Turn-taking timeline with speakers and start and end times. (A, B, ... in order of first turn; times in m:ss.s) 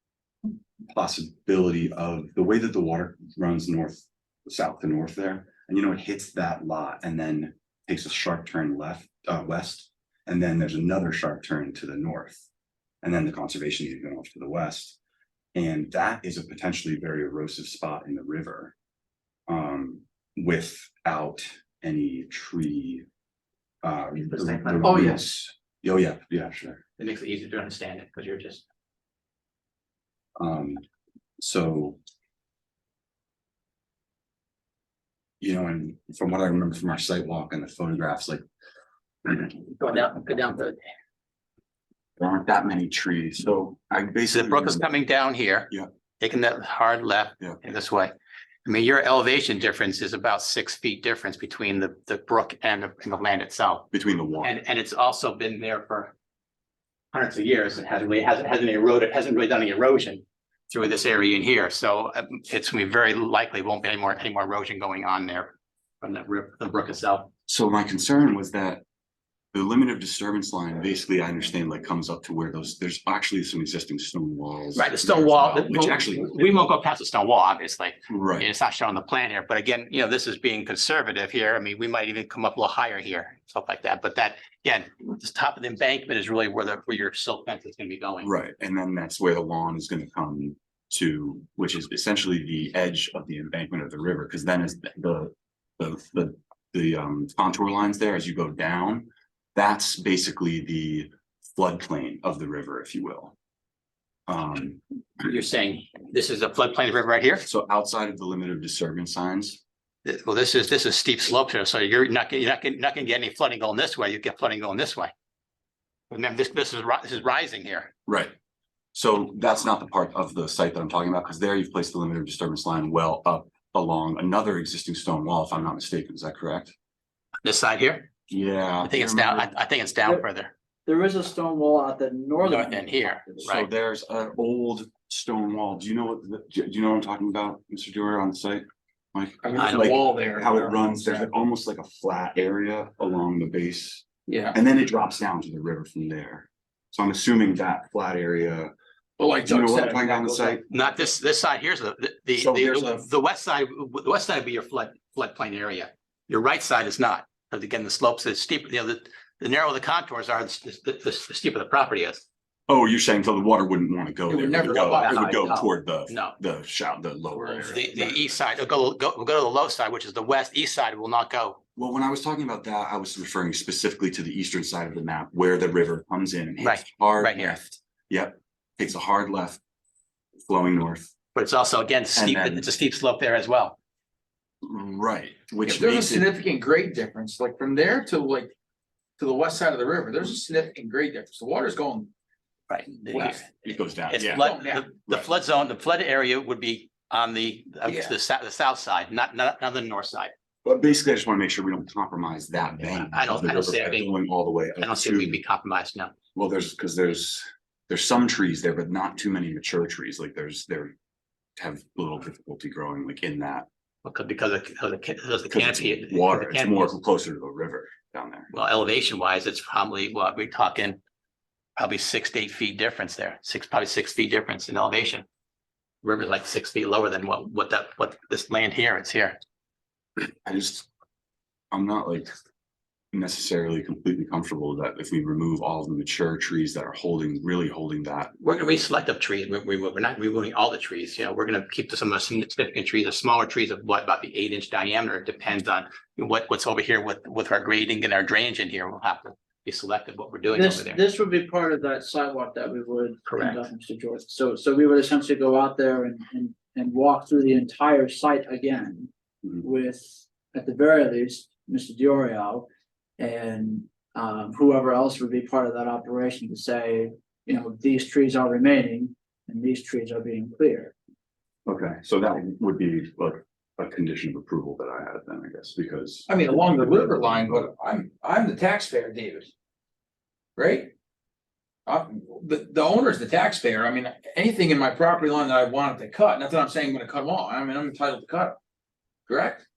0:00.9-0:12.5 A
0:13.0-0:15.0 A
0:15.6-0:18.7 A
0:19.5-0:23.1 A
0:23.8-0:26.8 A
0:24.2-0:25.1 B
0:24.8-0:25.2 C
0:27.0-0:28.6 B
0:30.4-0:30.8 A
0:31.4-0:32.0 A
0:35.4-0:38.4 A
0:39.4-0:40.8 B
0:42.2-0:44.9 A
0:44.3-0:48.1 B
0:48.6-0:53.9 B
0:53.9-0:54.6 A
0:54.4-0:56.1 B
0:57.1-1:07.3 B
1:07.5-1:08.8 A
1:09.5-1:16.7 A
1:14.8-1:28.3 B
1:18.1-1:18.5 A
1:28.2-1:43.4 A
1:44.3-1:44.8 A
1:45.2-1:47.5 B
1:47.4-1:49.6 A
1:50.0-1:55.1 B
1:56.1-1:57.9 B
1:58.1-1:58.3 A
1:58.9-2:06.7 A
2:07.4-2:08.1 B
2:08.3-2:09.5 A
2:08.8-2:10.5 B
2:10.9-2:13.4 C
2:12.4-2:13.7 B
2:13.4-2:28.7 A
2:19.4-2:21.3 D
2:19.6-2:20.0 B
2:24.3-2:24.6 D
2:29.2-2:30.6 D
2:29.4-2:30.7 A
2:30.7-2:42.2 B
2:32.4-2:33.1 A
2:42.7-2:48.3 A
2:44.3-2:45.7 D
2:44.6-2:46.4 B
2:47.4-2:47.7 D
2:47.6-2:51.6 B
2:51.8-2:59.6 A
2:56.6-2:57.6 B
3:00.5-3:01.1 A
3:01.4-3:03.8 B
3:02.2-3:02.7 A
3:04.6-3:06.3 A
3:05.6-3:08.5 D
3:09.2-3:12.1 D
3:12.7-3:13.5 B
3:13.1-3:14.4 A
3:14.1-3:20.3 B
3:14.3-3:14.9 D
3:17.8-3:18.1 D
3:20.6-3:25.4 A
3:23.1-3:24.1 B
3:24.8-3:26.1 B
3:26.4-3:30.9 A
3:31.6-3:33.7 A
3:34.0-3:37.0 B
3:35.5-3:38.5 A
3:38.5-3:41.0 B
3:41.8-3:45.2 B
3:46.0-3:49.4 B
3:50.4-3:50.9 A
3:51.7-3:52.3 A
3:53.1-3:58.8 A
3:58.4-4:11.0 B
4:10.5-4:22.7 C
4:13.3-4:13.7 B
4:23.2-4:30.9 C
4:31.7-4:36.3 A
4:36.3-4:39.5 D
4:37.2-4:37.6 A
4:40.6-4:40.9 D
4:41.9-4:48.6 D
4:49.3-4:49.6 D